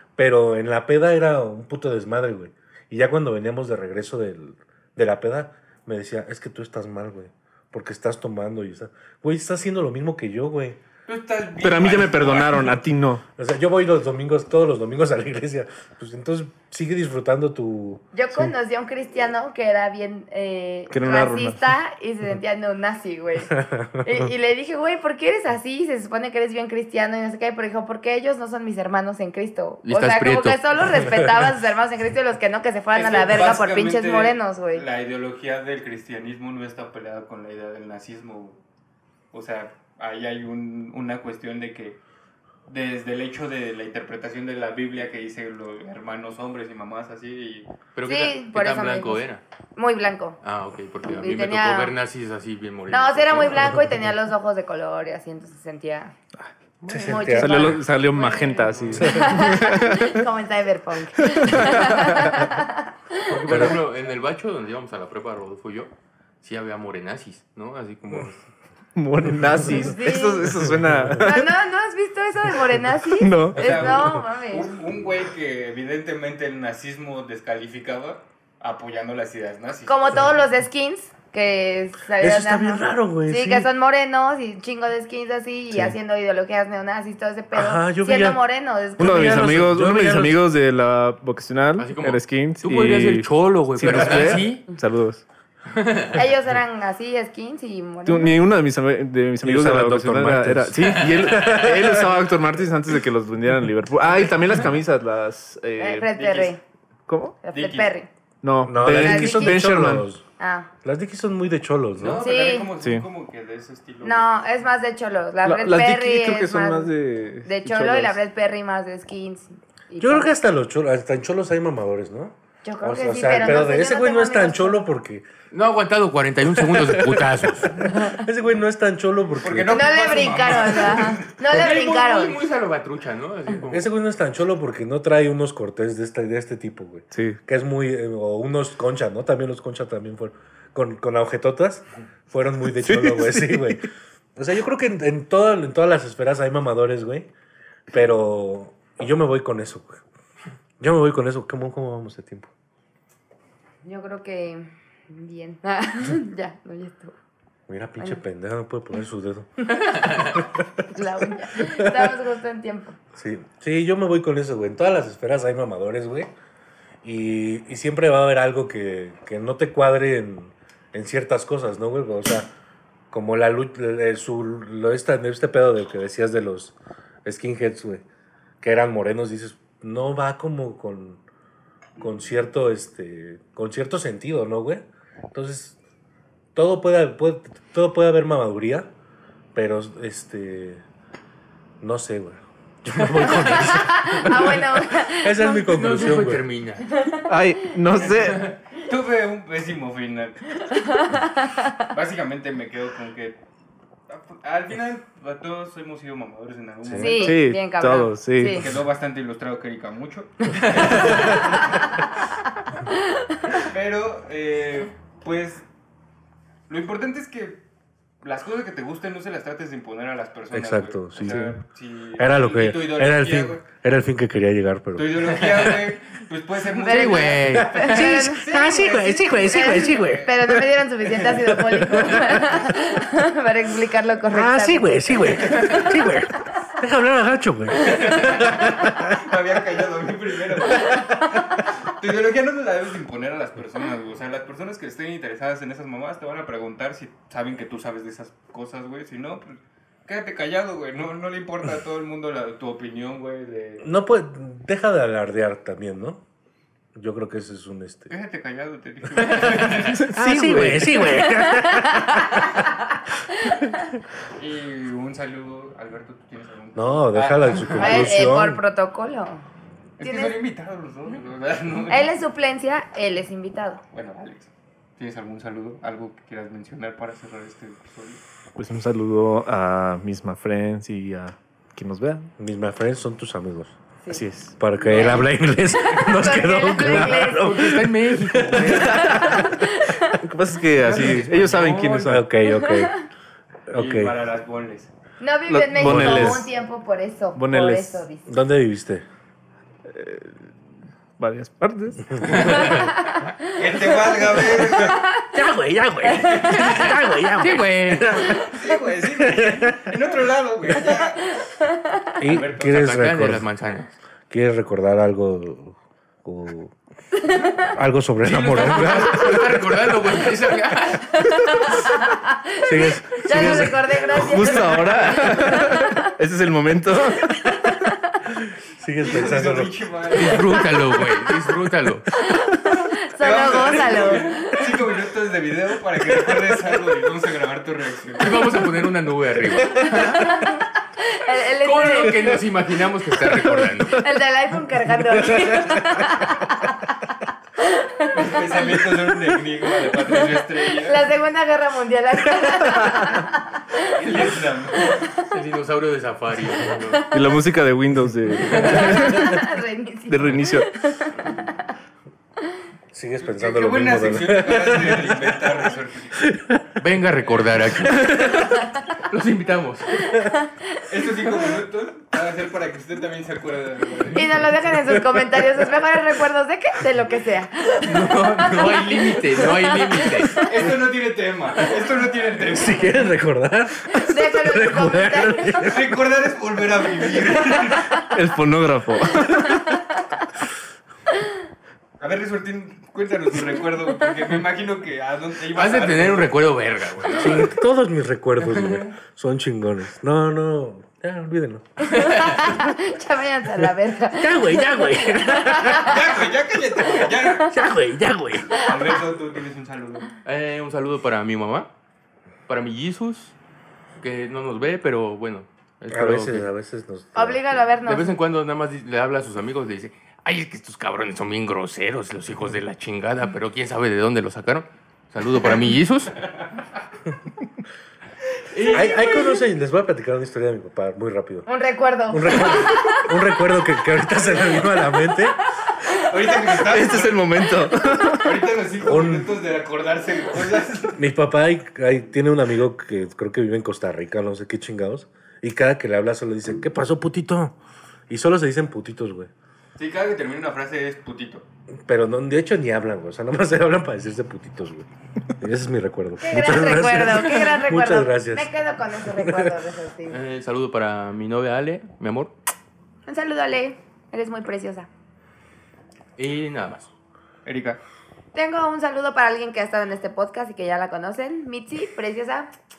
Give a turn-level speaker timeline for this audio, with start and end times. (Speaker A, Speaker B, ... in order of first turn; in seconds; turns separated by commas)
Speaker A: 0.2-10.8, Speaker B: 11.1-12.9, Speaker C: 11.6-13.2, Speaker A: 13.4-18.0, Speaker D: 18.1-34.9, Speaker C: 20.9-21.7, Speaker A: 23.5-24.3, Speaker E: 29.8-30.8, Speaker B: 33.0-38.6, Speaker B: 39.3-42.0, Speaker B: 42.7-47.7, Speaker E: 48.0-49.4, Speaker D: 48.1-49.2, Speaker D: 49.8-50.4, Speaker E: 50.4-53.8, Speaker D: 51.1-51.9, Speaker D: 52.9-56.2, Speaker C: 56.4-60.2, Speaker A: 56.9-57.8, Speaker D: 57.0-63.6, Speaker A: 59.0-59.3, Speaker C: 61.2-62.5, Speaker E: 63.3-65.9, Speaker A: 63.5-63.8, Speaker E: 66.4-68.5, Speaker C: 69.0-71.5, Speaker D: 69.7-70.5, Speaker D: 71.2-74.7, Speaker C: 73.2-73.8, Speaker B: 73.6-80.3, Speaker D: 79.9-89.6, Speaker A: 82.1-83.7, Speaker A: 87.5-88.4, Speaker A: 89.0-90.4, Speaker C: 89.0-95.2, Speaker E: 91.8-94.6, Speaker E: 95.7-96.2, Speaker D: 96.1-98.6, Speaker C: 98.0-106.1, Speaker A: 99.4-102.1, Speaker E: 100.8-102.0, Speaker D: 105.8-106.6, Speaker B: 106.1-106.5, Speaker C: 107.1-107.4, Speaker D: 107.4-108.1, Speaker B: 107.5-107.9, Speaker C: 108.4-110.1, Speaker A: 108.6-110.2, Speaker D: 108.8-109.7, Speaker D: 110.4-110.7, Speaker A: 110.8-112.2, Speaker B: 112.0-114.3, Speaker D: 112.2-112.7, Speaker C: 112.8-113.1, Speaker D: 114.0-116.9, Speaker C: 115.5-118.2, Speaker D: 117.4-120.3, Speaker A: 120.0-125.2, Speaker D: 122.6-124.9, Speaker E: 125.5-127.7, Speaker A: 126.8-130.2, Speaker B: 129.4-131.3, Speaker D: 129.7-132.4, Speaker E: 131.5-133.9, Speaker A: 133.7-143.8, Speaker C: 137.1-137.4, Speaker C: 142.8-143.8, Speaker A: 144.4-147.3, Speaker A: 147.9-150.0, Speaker A: 150.8-152.5, Speaker D: 153.8-157.1, Speaker A: 157.7-160.6, Speaker E: 159.8-160.4, Speaker D: 159.8-160.1, Speaker D: 160.9-162.9, Speaker A: 161.6-162.1, Speaker A: 163.1-166.3, Speaker A: 167.0-172.5, Speaker A: 173.1-178.0, Speaker A: 178.6-181.2, Speaker A: 182.0-185.8, Speaker A: 186.6-188.9, Speaker A: 189.6-190.8, Speaker A: 191.8-196.4, Speaker D: 193.3-195.8, Speaker E: 195.7-196.9, Speaker C: 197.3-198.5, Speaker B: 197.9-200.6, Speaker D: 200.7-201.8, Speaker B: 201.9-203.4, Speaker B: 204.1-207.4, Speaker A: 206.8-207.1, Speaker D: 207.0-208.6, Speaker C: 207.1-208.7, Speaker B: 208.5-212.0, Speaker E: 210.8-211.1, Speaker D: 212.9-213.6, Speaker B: 213.6-215.7, Speaker B: 216.7-217.6, Speaker B: 218.2-223.6, Speaker A: 220.5-221.5, Speaker C: 221.2-221.6, Speaker A: 222.2-225.3, Speaker B: 224.9-230.3, Speaker E: 225.4-225.9, Speaker E: 226.8-227.9, Speaker D: 226.8-228.4, Speaker A: 227.7-230.6, Speaker D: 229.5-235.8, Speaker A: 231.5-232.7, Speaker A: 234.3-239.3, Speaker B: 235.4-235.9, Speaker B: 237.8-253.9, Speaker A: 253.8-256.2, Speaker A: 256.9-258.1, Speaker B: 258.1-260.1, Speaker A: 259.2-262.6, Speaker C: 259.8-261.3, Speaker D: 261.2-262.7, Speaker D: 263.3-263.8, Speaker B: 264.4-268.2, Speaker A: 266.8-268.6, Speaker D: 267.8-269.4, Speaker B: 270.0-272.1, Speaker D: 270.0-270.4, Speaker D: 271.9-273.8, Speaker B: 273.9-278.2, Speaker C: 278.6-282.3, Speaker A: 282.4-283.8, Speaker C: 284.1-285.0, Speaker A: 284.6-288.7, Speaker E: 284.9-285.2, Speaker D: 285.7-287.6, Speaker E: 286.8-289.1, Speaker B: 288.4-289.4, Speaker C: 288.7-289.5, Speaker D: 288.9-290.2, Speaker C: 290.1-292.3, Speaker E: 290.8-292.1, Speaker B: 290.9-291.6, Speaker A: 292.0-292.9, Speaker D: 292.5-293.0, Speaker A: 293.7-294.1, Speaker B: 293.7-294.9, Speaker D: 295.2-298.3, Speaker C: 295.5-296.5, Speaker A: 295.8-296.4, Speaker C: 297.4-298.1, Speaker A: 298.3-299.1, Speaker C: 299.9-300.5, Speaker C: 301.2-302.9, Speaker A: 302.2-302.8, Speaker D: 302.4-303.3, Speaker B: 303.5-305.0, Speaker D: 304.8-305.1, Speaker A: 305.3-308.5, Speaker B: 306.1-306.9, Speaker E: 306.6-308.2, Speaker D: 308.2-308.6, Speaker B: 308.4-311.4, Speaker A: 309.1-309.9, Speaker A: 312.2-313.5, Speaker B: 312.2-312.8, Speaker E: 312.6-313.9, Speaker A: 314.3-316.7, Speaker A: 317.6-319.5, Speaker E: 318.2-321.2, Speaker D: 321.2-326.0, Speaker A: 322.6-324.7, Speaker C: 324.1-327.3, Speaker D: 327.6-328.0, Speaker A: 328.8-329.7, Speaker B: 329.0-330.7, Speaker E: 330.1-332.1, Speaker D: 332.3-334.6, Speaker B: 333.2-338.4, Speaker E: 338.2-340.4, Speaker D: 340.2-342.4, Speaker E: 341.6-344.1, Speaker D: 344.0-348.4, Speaker A: 345.4-346.0, Speaker B: 348.1-351.0, Speaker D: 350.1-354.1, Speaker B: 353.9-355.0, Speaker D: 354.8-355.1, Speaker E: 355.2-357.1, Speaker D: 356.9-357.3, Speaker C: 357.1-359.4, Speaker E: 358.4-359.1, Speaker D: 358.6-361.6, Speaker C: 360.1-360.7, Speaker A: 362.9-366.6, Speaker B: 363.2-366.2, Speaker E: 366.8-369.9, Speaker D: 370.0-370.8, Speaker B: 370.9-374.3, Speaker D: 374.1-380.5, Speaker E: 377.9-380.4, Speaker B: 380.4-382.9, Speaker A: 382.5-386.0, Speaker D: 383.9-385.6, Speaker B: 385.6-388.0, Speaker C: 388.0-389.8, Speaker D: 389.2-389.8, Speaker B: 392.0-396.3, Speaker E: 395.5-397.6, Speaker A: 397.1-401.9, Speaker E: 398.4-398.9, Speaker D: 401.8-406.0, Speaker E: 401.9-402.4, Speaker A: 403.6-405.9, Speaker B: 405.7-407.5, Speaker A: 407.4-408.5, Speaker D: 408.5-408.8, Speaker B: 408.6-410.1, Speaker E: 410.2-411.7, Speaker E: 412.5-413.3, Speaker E: 414.0-416.5, Speaker A: 415.9-417.6, Speaker D: 417.1-418.2, Speaker E: 417.9-426.1, Speaker B: 428.5-428.9, Speaker A: 428.7-431.5, Speaker D: 431.4-433.1, Speaker A: 432.1-435.4, Speaker B: 436.0-437.5, Speaker C: 436.5-438.4, Speaker B: 438.2-441.0, Speaker A: 438.8-439.4, Speaker A: 440.9-447.6, Speaker A: 448.1-449.3, Speaker B: 449.8-451.4, Speaker A: 451.9-454.9, Speaker A: 455.4-458.5, Speaker D: 456.2-460.2, Speaker A: 459.1-459.5, Speaker E: 460.1-462.3, Speaker D: 463.1-464.9, Speaker E: 466.2-466.9, Speaker B: 467.4-467.8, Speaker D: 468.4-472.5